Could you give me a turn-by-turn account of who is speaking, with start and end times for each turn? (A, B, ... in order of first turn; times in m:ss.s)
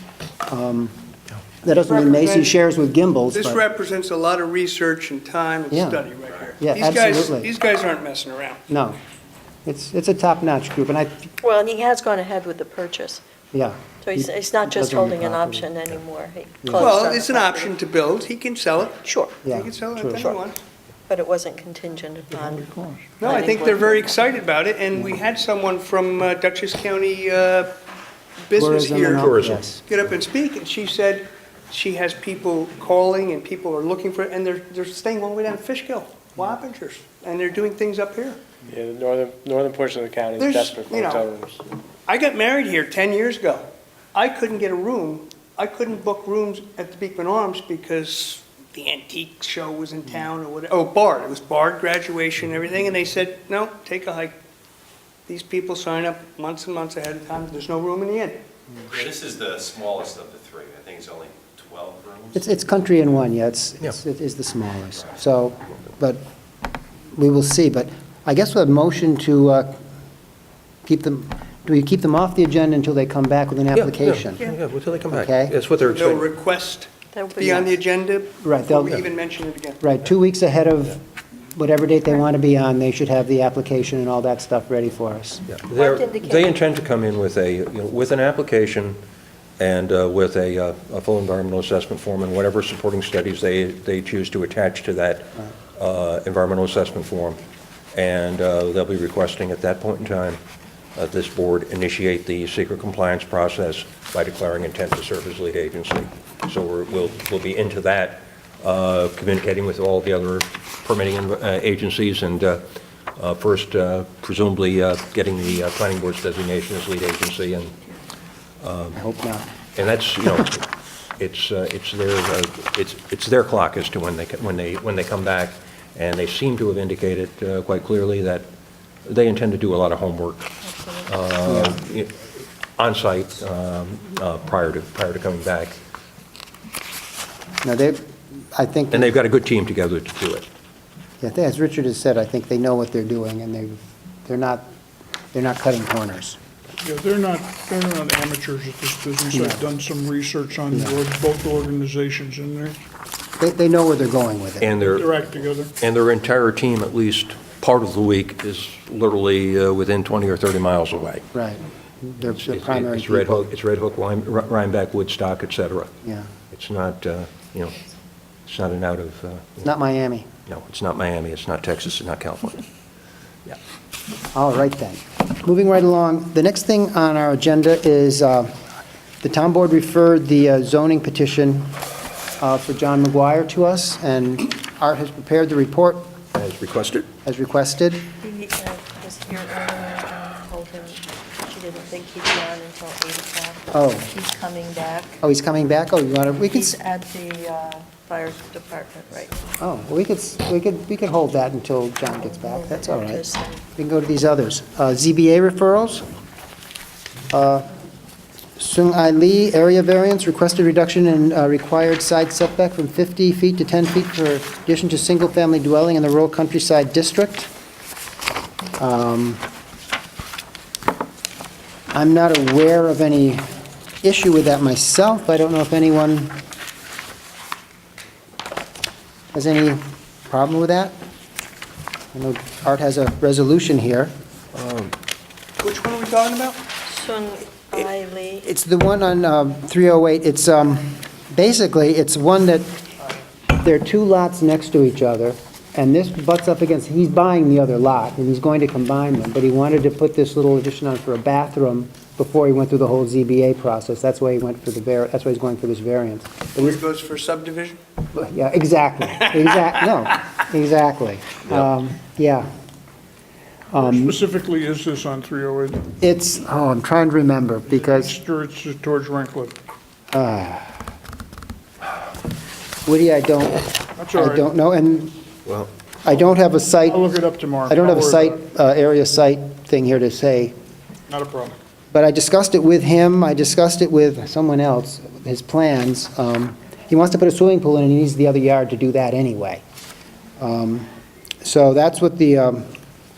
0:00.5-0:01.0 A
0:01.6-0:03.6 A
0:01.7-0:02.5 B
0:03.3-0:08.6 B
0:05.7-0:06.0 A
0:06.6-0:07.5 A
0:08.7-0:09.0 A
0:09.6-0:11.3 A
0:11.4-0:13.2 C
0:13.5-0:15.7 A
0:14.0-0:17.7 C
0:16.6-0:16.9 A
0:16.8-0:20.6 B
0:19.0-0:19.3 C
0:19.4-0:20.4 A
0:21.1-0:24.1 C
0:22.3-0:23.1 D
0:23.2-0:27.7 B
0:28.5-0:29.3 B
0:28.6-0:29.8 A
0:29.1-0:29.6 E
0:29.9-0:38.6 B
0:38.7-0:41.6 F
0:40.4-0:41.3 B
0:42.1-0:54.4 B
0:55.3-0:58.4 B
0:58.9-1:02.3 G
1:02.3-1:06.2 A
1:07.1-1:09.8 A
1:10.8-1:14.4 A
1:13.7-1:16.3 E
1:15.1-1:15.5 A
1:15.8-1:19.8 B
1:17.1-1:17.7 C
1:18.4-1:19.0 A
1:19.8-1:21.0 A
1:21.5-1:25.5 A
1:25.5-1:29.0 E
1:25.7-1:26.6 C
1:29.6-1:37.4 E
1:37.9-1:40.4 E
1:41.0-1:52.6 E
1:53.2-1:57.8 E
1:58.6-1:59.0 E
1:59.0-1:59.5 A
1:59.8-2:00.7 E
2:01.2-2:08.5 E
2:09.0-2:10.6 E
2:10.6-2:11.2 C
2:11.1-2:12.2 E
2:11.5-2:11.8 A
2:12.8-2:15.8 E
2:17.6-2:18.0 A
2:18.6-2:19.1 A
2:18.9-2:20.5 E
2:21.2-2:24.6 A
2:25.3-2:26.4 A
2:26.8-2:32.8 D
2:29.3-2:29.6 A
2:30.7-2:31.0 A
2:33.4-2:34.7 A
2:34.6-2:35.1 E
2:34.8-2:35.7 D
2:35.8-2:41.3 E
2:41.3-2:43.5 A
2:42.3-2:45.9 E
2:46.0-2:46.3 A
2:46.5-2:47.8 E
2:48.5-2:49.7 E
2:49.6-2:50.3 A
2:50.5-2:52.6 E
2:54.3-2:58.6 A
2:59.2-3:01.7 A
3:02.4-3:06.1 A
3:06.3-3:07.1 E
3:07.2-3:08.0 A
3:08.2-3:15.2 C
3:13.7-3:14.1 A
3:15.2-3:16.8 A
3:16.4-3:19.4 C
3:19.6-3:23.2 A
3:22.1-3:23.6 C
3:23.8-3:26.0 A
3:27.3-3:27.7 A
3:28.6-3:37.5 A
3:38.8-3:39.4 A
3:41.9-3:43.4 A
3:44.0-3:46.4 A
3:49.3-3:51.0 A
3:52.1-3:54.1 A
3:54.5-3:54.9 E
3:55.6-3:56.6 B
3:56.9-3:58.4 C
3:58.4-4:02.8 A
4:03.5-4:16.8 A
4:16.6-4:17.8 B
4:18.1-4:22.5 A
4:23.7-4:24.2 A
4:23.7-4:25.8 D
4:26.0-4:28.2 A
4:27.7-4:29.6 D
4:30.1-4:30.7 A
4:32.8-4:35.2 A
4:34.0-4:34.5 D
4:35.5-4:35.7 E
4:36.0-4:37.0 A
4:36.8-4:38.4 D
4:37.7-4:40.6 A
4:41.1-4:41.6 D
4:41.9-4:49.6 A
4:50.4-4:50.9 A
4:51.4-4:52.7 A